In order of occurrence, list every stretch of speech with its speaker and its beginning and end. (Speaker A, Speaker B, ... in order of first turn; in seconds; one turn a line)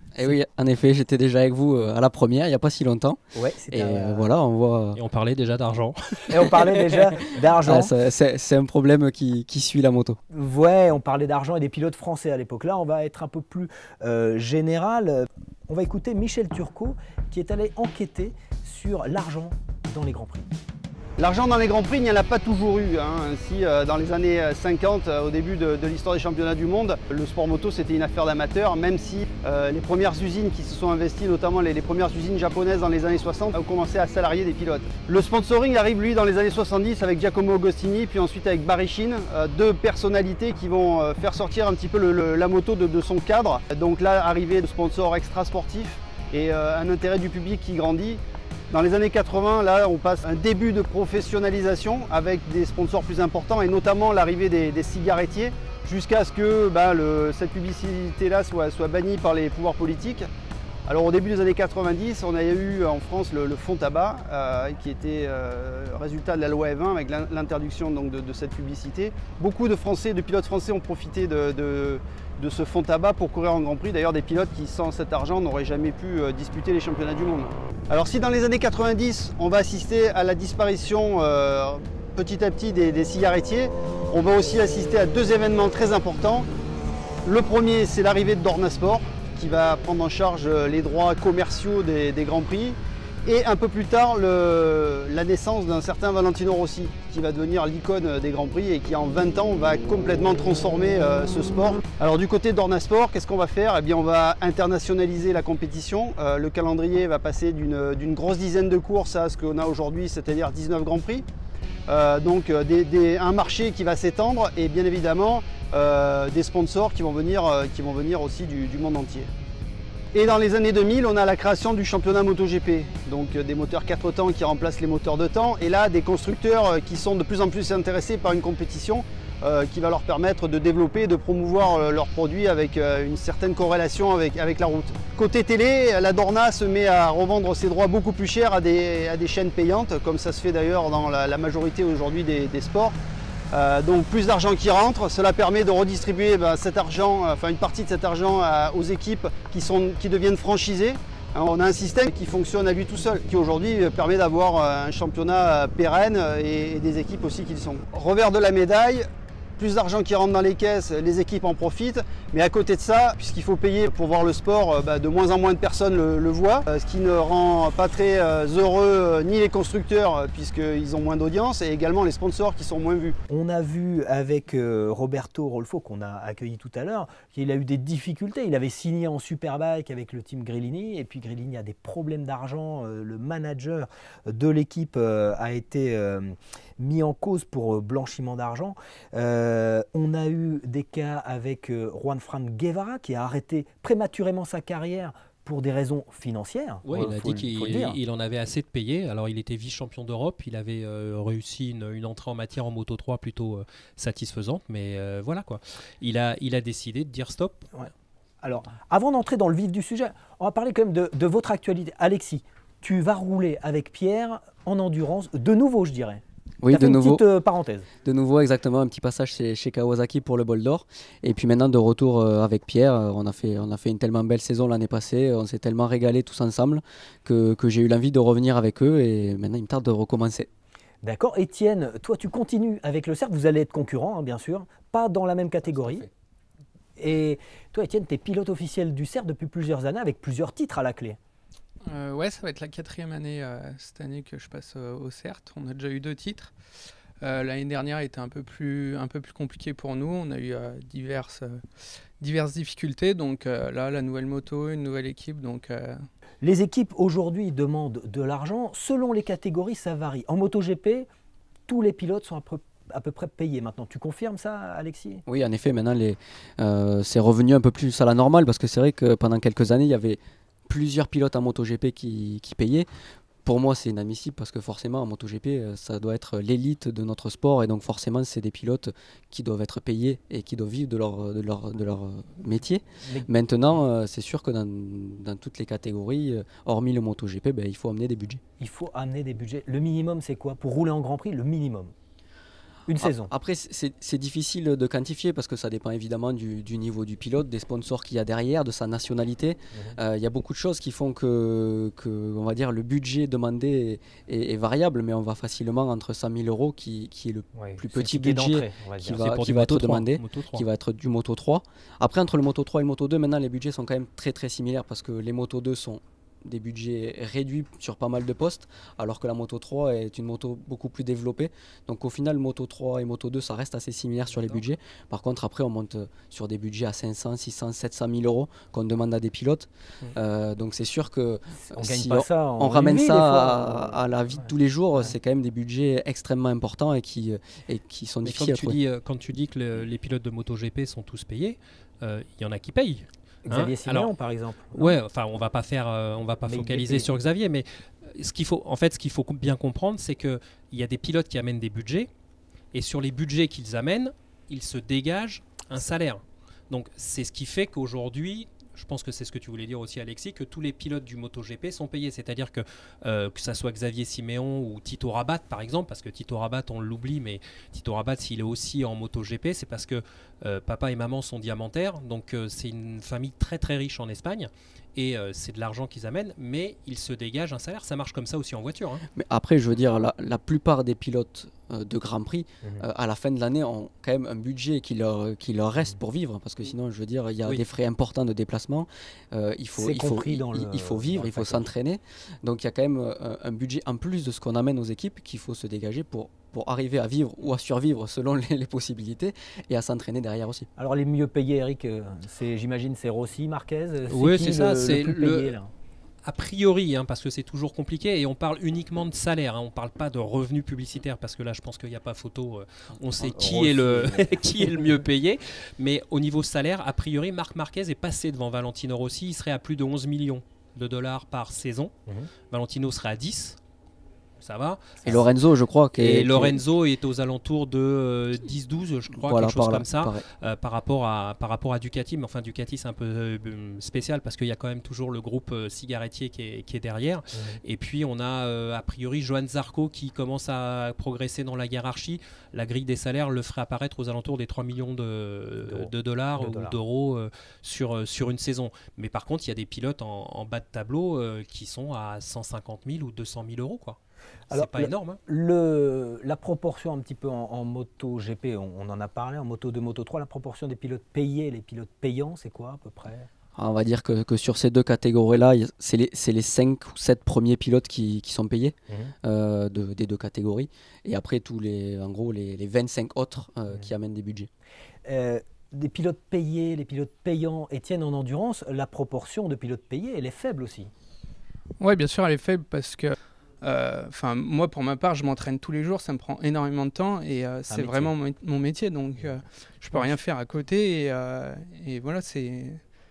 Speaker A: 0.1-3.2
Speaker B: 3.3-4.3
Speaker A: 3.7-5.0
Speaker C: 5.0-7.0
Speaker B: 6.3-7.9
Speaker A: 7.5-10.2
Speaker B: 10.3-20.5
Speaker D: 21.2-60.3
Speaker D: 60.9-86.5
Speaker D: 87.2-111.2
Speaker D: 111.9-119.3
Speaker D: 120.1-143.0
Speaker D: 143.5-159.1
Speaker D: 159.6-173.2
Speaker B: 173.3-198.0
Speaker C: 196.9-207.7
Speaker B: 208.4-217.9
Speaker A: 216.6-217.2
Speaker A: 218.0-230.5
Speaker B: 231.0-236.1
Speaker B: 237.0-241.2
Speaker E: 241.9-246.5
Speaker E: 247.2-256.0
Speaker B: 256.4-261.1
Speaker B: 261.7-265.2
Speaker A: 265.3-272.9
Speaker A: 273.4-288.4
Speaker B: 283.0-283.3
Speaker B: 288.6-291.9
Speaker B: 292.9-293.3
Speaker A: 292.9-338.8
Speaker B: 299.7-300.0
Speaker B: 307.5-309.2
Speaker C: 309.1-310.7
Speaker B: 324.3-324.6
Speaker B: 331.5-335.2
Speaker C: 338.2-344.1
Speaker B: 343.5-345.0
Speaker C: 344.7-352.1
Speaker B: 346.5-347.1
Speaker C: 352.7-379.0
Speaker A: 379.2-400.7
Speaker B: 389.8-391.7
Speaker B: 400.8-405.7
Speaker C: 404.1-405.5
Speaker C: 406.2-421.9
Speaker B: 413.2-414.9
Speaker C: 422.5-423.6
Speaker C: 424.4-425.2
Speaker A: 425.1-426.6
Speaker C: 426.0-454.0
Speaker A: 429.2-430.2
Speaker B: 437.3-437.6
Speaker B: 445.7-446.8
Speaker B: 454.5-463.3
Speaker C: 454.5-455.2
Speaker A: 463.6-474.5
Speaker B: 468.9-469.1
Speaker B: 475.1-480.9
Speaker E: 481.8-492.8
Speaker B: 487.7-488.1